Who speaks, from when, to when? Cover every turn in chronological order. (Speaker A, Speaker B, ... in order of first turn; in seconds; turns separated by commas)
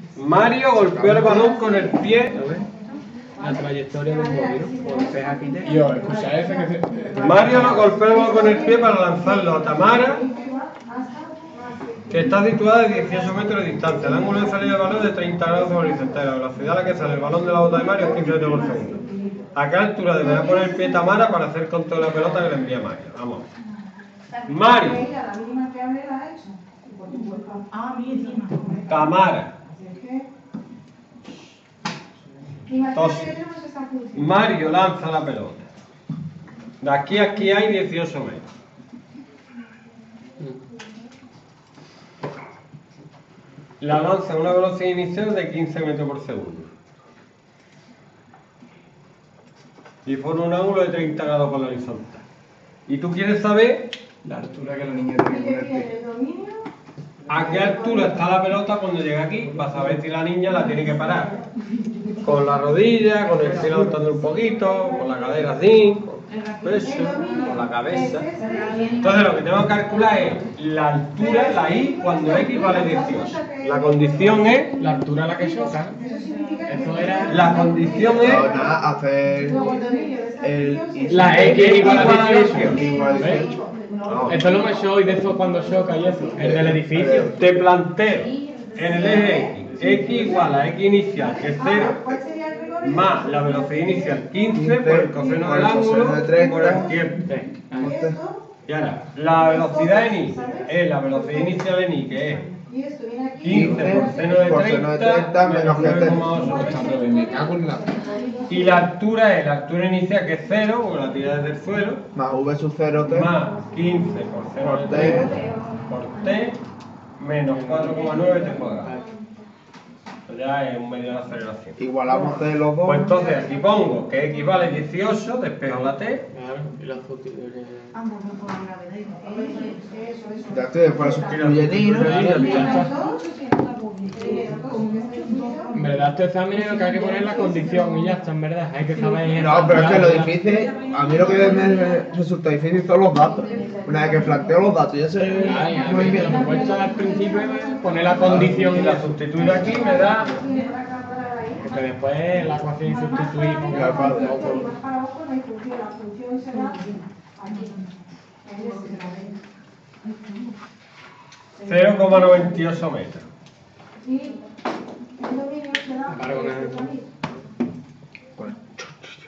Speaker A: 0.1-2.5, Speaker B: 0.8-1.5, Speaker C: 2.4-2.6, Speaker C: 3.4-8.0, Speaker D: 4.2-5.2, Speaker E: 5.0-7.5, Speaker D: 5.8-6.2, Speaker A: 7.2-10.3, Speaker D: 8.0-9.2, Speaker D: 10.0-12.1, Speaker A: 12.1-23.5, Speaker D: 17.9-18.5, Speaker A: 24.4-25.1, Speaker D: 25.1-28.8, Speaker A: 28.9-29.5, Speaker D: 29.8-30.2, Speaker D: 32.7-34.1, Speaker A: 32.9-33.4, Speaker A: 34.1-35.7, Speaker A: 36.8-38.5, Speaker A: 43.8-46.7, Speaker A: 50.0-52.2, Speaker A: 52.9-53.9, Speaker E: 54.3-55.1, Speaker D: 55.2-56.7, Speaker A: 57.3-61.4, Speaker A: 62.2-68.3, Speaker D: 66.9-68.9, Speaker A: 68.9-74.7, Speaker D: 71.7-73.5, Speaker D: 74.3-74.6, Speaker C: 74.8-76.0, Speaker D: 76.0-78.7, Speaker C: 76.7-77.3, Speaker A: 77.3-78.5, Speaker B: 78.2-79.7, Speaker D: 79.5-83.4, Speaker B: 80.4-83.6, Speaker C: 81.1-83.5, Speaker A: 81.4-82.9, Speaker A: 84.0-84.4, Speaker C: 84.2-87.3, Speaker B: 86.4-87.4, Speaker A: 87.3-92.2, Speaker D: 91.6-93.5, Speaker A: 92.8-97.3, Speaker B: 94.5-97.0, Speaker C: 97.3-97.9, Speaker B: 97.7-98.2, Speaker D: 97.7-98.4, Speaker A: 98.7-102.5, Speaker D: 99.7-100.6, Speaker D: 102.6-104.3, Speaker A: 103.4-107.0, Speaker B: 103.5-106.5, Speaker D: 106.2-108.5, Speaker C: 106.5-107.4, Speaker E: 106.7-107.8, Speaker A: 108.5-112.0, Speaker B: 112.1-113.3, Speaker A: 113.0-116.6, Speaker B: 114.6-115.4, Speaker C: 114.9-115.2, Speaker A: 117.2-118.9, Speaker C: 117.5-118.1, Speaker C: 118.8-119.1, Speaker A: 120.3-121.8, Speaker B: 121.8-123.1, Speaker A: 122.8-126.3, Speaker C: 126.3-128.0, Speaker F: 128.1-129.6, Speaker D: 129.3-130.5, Speaker B: 130.5-132.6, Speaker A: 131.2-132.9, Speaker C: 131.9-133.0, Speaker D: 132.1-133.2, Speaker F: 133.5-135.4, Speaker D: 134.1-135.6, Speaker C: 135.7-140.7, Speaker B: 139.3-146.6, Speaker C: 145.2-150.3, Speaker D: 145.4-148.4, Speaker A: 148.2-150.3, Speaker D: 149.4-151.7, Speaker C: 151.6-154.7, Speaker D: 153.0-156.8, Speaker B: 153.7-154.7, Speaker D: 157.4-157.7, Speaker D: 158.5-159.3, Speaker A: 161.6-163.2, Speaker D: 164.0-164.3, Speaker D: 165.2-167.1, Speaker C: 166.1-166.9, Speaker B: 168.4-168.8